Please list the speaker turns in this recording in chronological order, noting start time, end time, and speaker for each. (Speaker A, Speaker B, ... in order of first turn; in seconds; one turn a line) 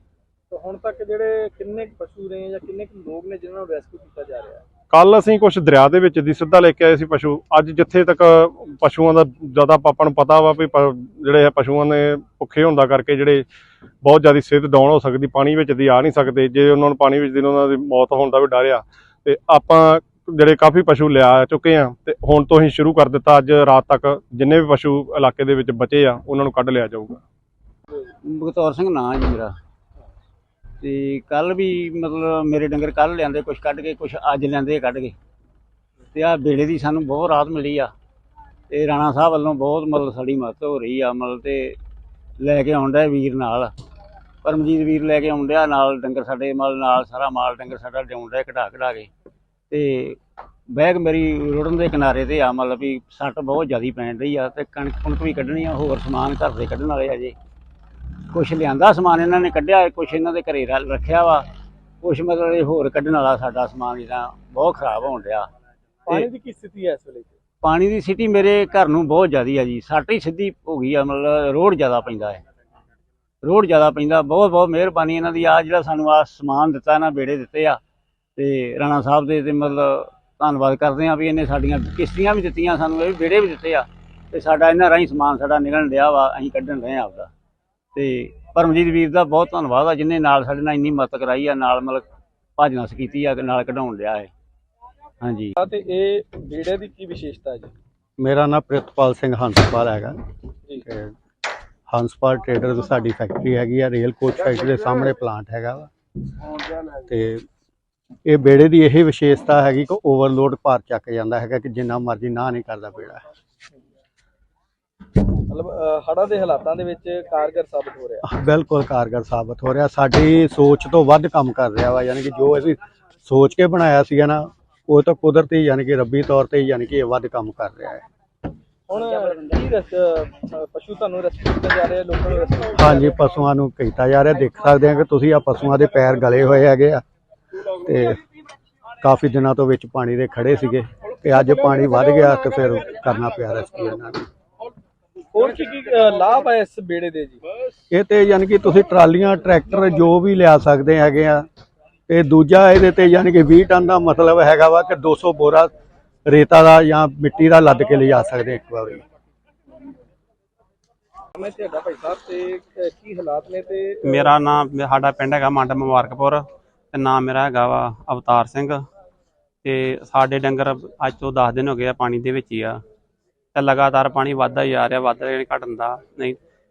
Speaker A: 0.5-4.6
Speaker B: 4.9-13.4
Speaker B: 14.0-27.2
Speaker C: 28.0-29.5
Speaker C: 30.8-35.1
Speaker C: 36.1-37.9
Speaker C: 38.7-41.8
Speaker C: 42.4-43.7
Speaker C: 44.4-49.1
Speaker C: 49.7-57.4
Speaker C: 58.3-61.5
Speaker C: 62.0-65.5
Speaker C: 66.1-66.3
Speaker A: 66.1-67.3
Speaker C: 67.6-72.4
Speaker C: 73.4-77.8
Speaker C: 78.4-87.3
Speaker C: 87.9-92.0
Speaker C: 92.6-94.3
Speaker C: 95.2-95.5
Speaker A: 95.6-97.7
Speaker D: 98.2-100.2
Speaker D: 101.9-105.9
Speaker D: 107.1-107.4
Speaker D: 108.2-113.2
Speaker A: 115.5-118.2
Speaker D: 118.3-128.0
Speaker A: 128.9-133.1
Speaker D: 132.8-137.0
Speaker D: 137.7-138.2
Speaker D: 139.0-144.2
Speaker A: 145.3-147.4
Speaker D: 147.9-151.4
Speaker D: 152.1-155.7
Speaker D: 156.2-159.0
Speaker A: 161.3-164.3
Speaker E: 164.0-166.4
Speaker E: 166.9-168.8
Speaker E: 169.6-172.8
Speaker E: 173.5-176.4